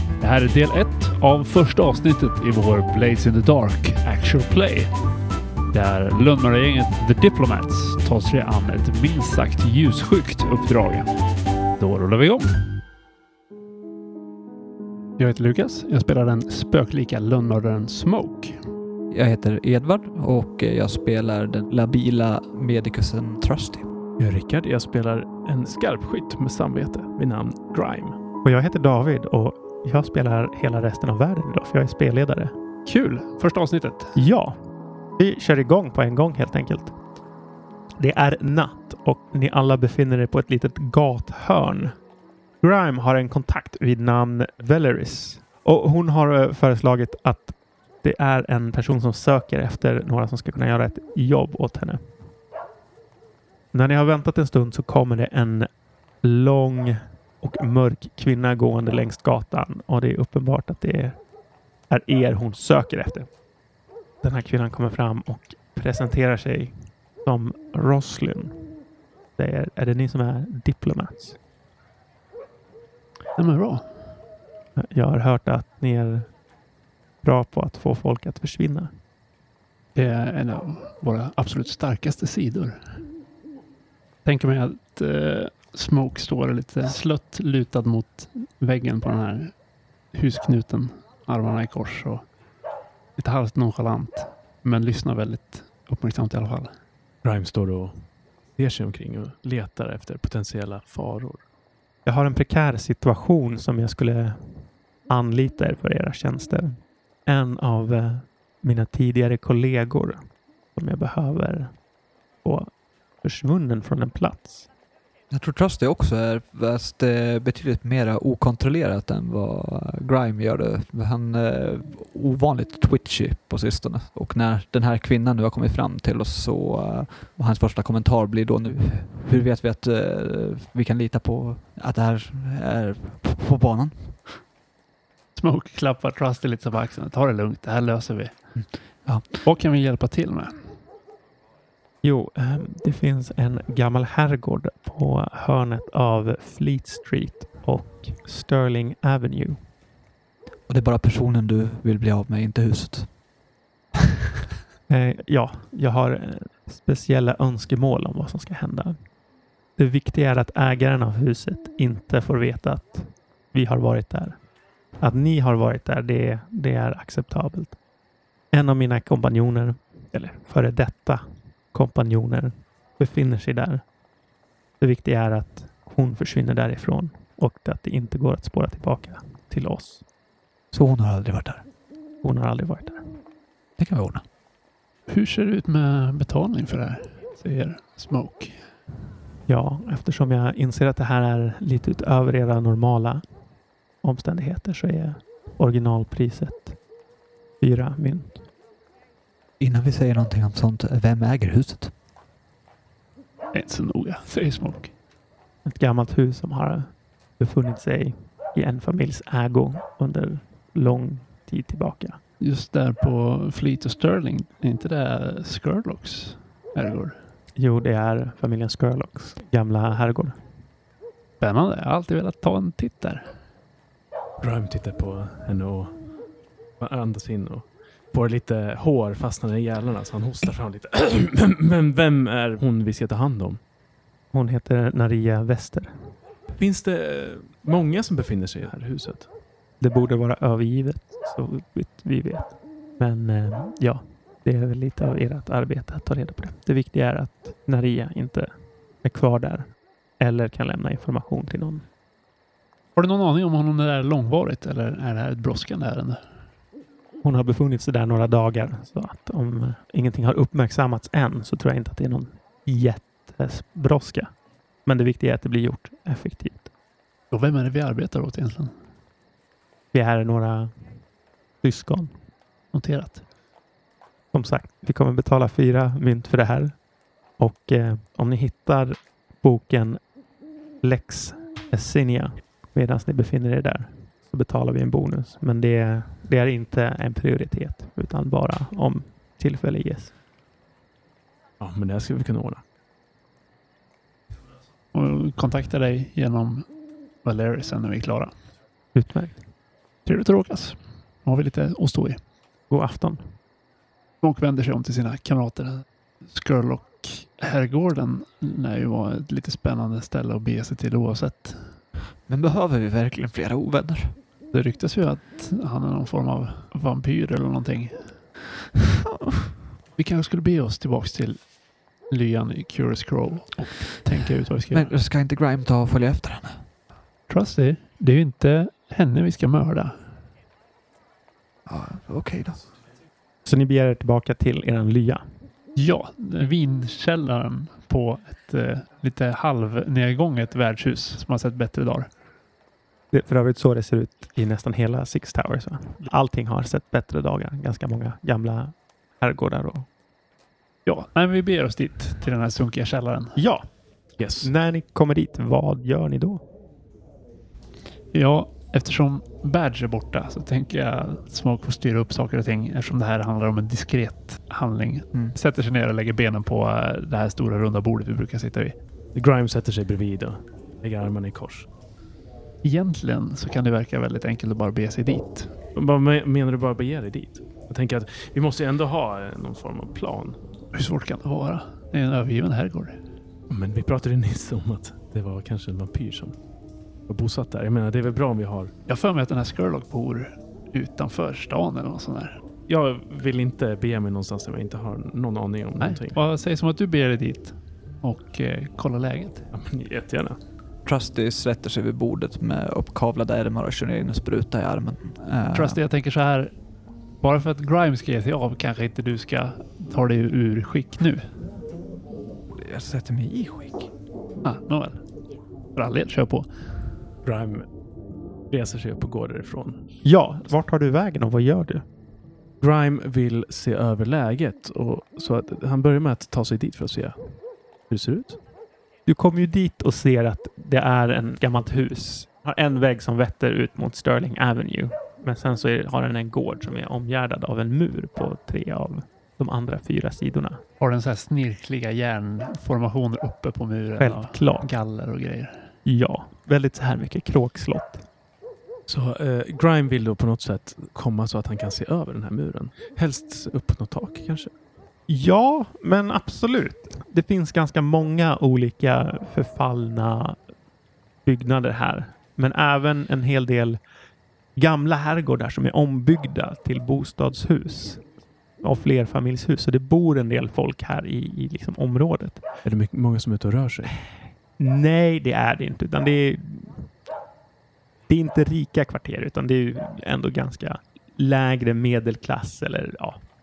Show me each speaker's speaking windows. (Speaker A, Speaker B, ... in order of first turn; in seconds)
Speaker A: 0.2-4.9, 5.7-11.1, 11.8-12.6, 15.2-18.6, 32.9-34.1, 73.4-74.1, 79.9-83.0, 84.2-89.5, 90.1-92.2, 93.2-96.7, 135.3-138.4, 139.4-140.7, 185.1-188.6, 203.5-204.9, 212.4-217.2, 221.4-223.3, 252.9-256.2, 267.3-268.7, 272.7-273.2, 294.9-296.7, 297.2-298.3, 300.1-302.2, 304.2-311.7, 314.5-318.2, 319.9-321.4, 322.1-324.9, 327.3-329.9, 335.8-342.1, 350.9-353.4, 358.1-368.8, 372.6-375.5, 380.7-383.0, 388.9-392.4, 395.8-399.5, 405.5-406.5, 407.2-411.2, 414.4-415.0, 415.8-416.5, 440.8-445.7
Speaker B: 19.1-23.9, 115.3-134.4, 139.1-139.3, 150.7-153.1, 180.7-181.6, 183.8-184.2, 199.6-201.9, 312.3-314.1, 324.7-326.6, 331.7-332.6, 400.8-405.8, 412.5-413.9
Speaker C: 24.2-28.2, 97.2-101.4, 224.4-226.0, 226.8-233.6, 236.5-239.3, 291.6-292.6, 354.2-354.5, 369.1-371.7, 375.7-380.4, 383.5-386.4, 387.1-388.7, 392.7-396.2, 399.5-400.4, 417.2-417.6, 418.5-419.8, 422.6-428.4, 448.9-454.5, 472.6-474.0
Speaker D: 28.4-32.5, 34.1-34.6, 35.2-37.0, 38.0-41.9, 42.6-52.1, 53.7-55.7, 56.2-61.2, 61.9-63.3, 64.2-68.6, 69.4-71.4, 74.8-76.3, 77.2-78.9, 102.0-110.2, 110.7-111.7, 112.4-112.7, 113.2-114.7, 142.0-149.6, 154.9-159.0, 159.8-164.4, 165.0-167.8, 168.5-173.8, 174.8-180.0, 182.2-183.0, 189.5-193.2, 194.0-196.8, 197.6-198.5, 205.6-212.2, 217.6-220.4, 234.3-236.2, 239.8-248.5, 249.0-251.9, 257.2-264.3, 264.9-266.7, 269.9-270.7, 271.6-272.1, 274.3-276.8, 277.4-280.0, 280.8-290.1, 298.9-299.4, 302.7-303.3, 333.4-335.2, 343.1-349.9, 353.4-353.7, 354.4-356.4, 420.0-421.8, 429.1-440.6, 444.0-444.7, 445.8-448.0, 455.1-460.4, 461.2-463.8, 464.6-468.1, 468.6-472.4, 474.6-476.9, 478.1-483.2